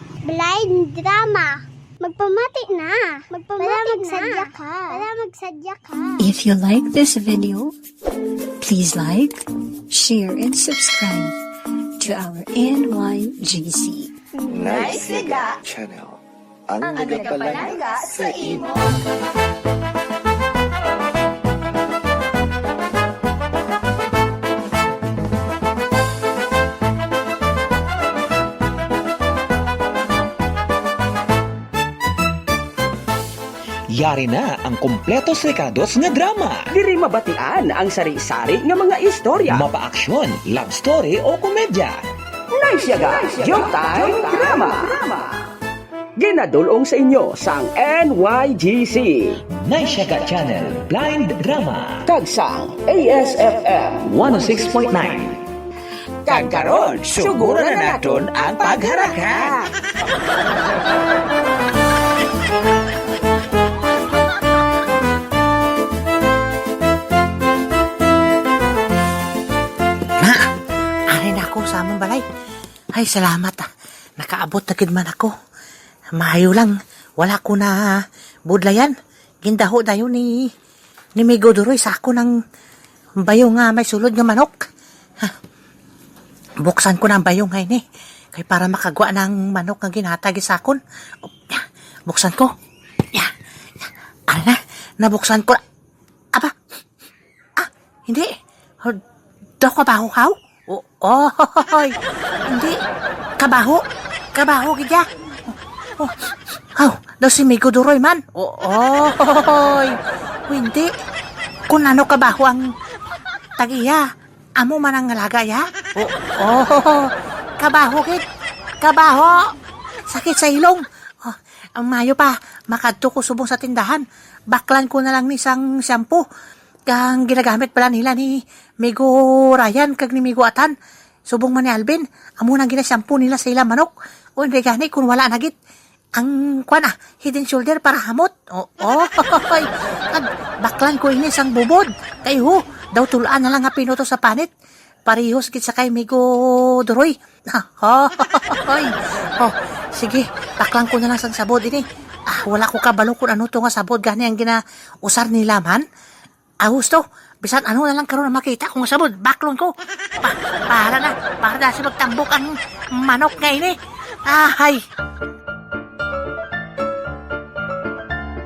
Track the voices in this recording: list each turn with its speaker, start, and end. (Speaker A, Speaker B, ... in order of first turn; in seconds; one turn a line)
Speaker A: 0.3-6.2
Speaker B: 6.2-7.7
Speaker B: 8.6-11.3
Speaker B: 12.0-14.1
Speaker C: 14.5-15.9
Speaker C: 16.7-18.9
Speaker D: 33.9-36.7
Speaker E: 36.7-39.7
Speaker D: 39.5-42.0
Speaker E: 42.6-45.0
Speaker D: 42.8-45.0
Speaker E: 46.2-49.4
Speaker D: 49.6-52.0
Speaker E: 52.1-54.9
Speaker D: 54.0-55.4
Speaker E: 56.3-59.7
Speaker D: 56.3-59.6
Speaker F: 70.2-70.5
Speaker F: 71.1-72.2
Speaker F: 72.9-73.7
Speaker F: 74.2-75.3
Speaker F: 76.2-77.9
Speaker F: 78.5-80.5
Speaker F: 81.2-82.3
Speaker F: 83.2-84.7
Speaker F: 86.6-87.8
Speaker F: 88.3-90.8
Speaker F: 91.5-92.5
Speaker F: 93.8-95.6
Speaker F: 97.6-99.0
Speaker F: 99.6-101.9
Speaker F: 102.5-102.8
Speaker F: 103.4-110.0
Speaker F: 110.5-110.9
Speaker F: 111.7-112.7
Speaker F: 113.6-114.1
Speaker F: 114.6-118.2
Speaker F: 118.8-119.5
Speaker F: 120.1-126.2
Speaker F: 126.9-130.7
Speaker F: 131.3-135.5
Speaker F: 136.2-144.5
Speaker F: 145.1-155.8
Speaker F: 156.6-164.8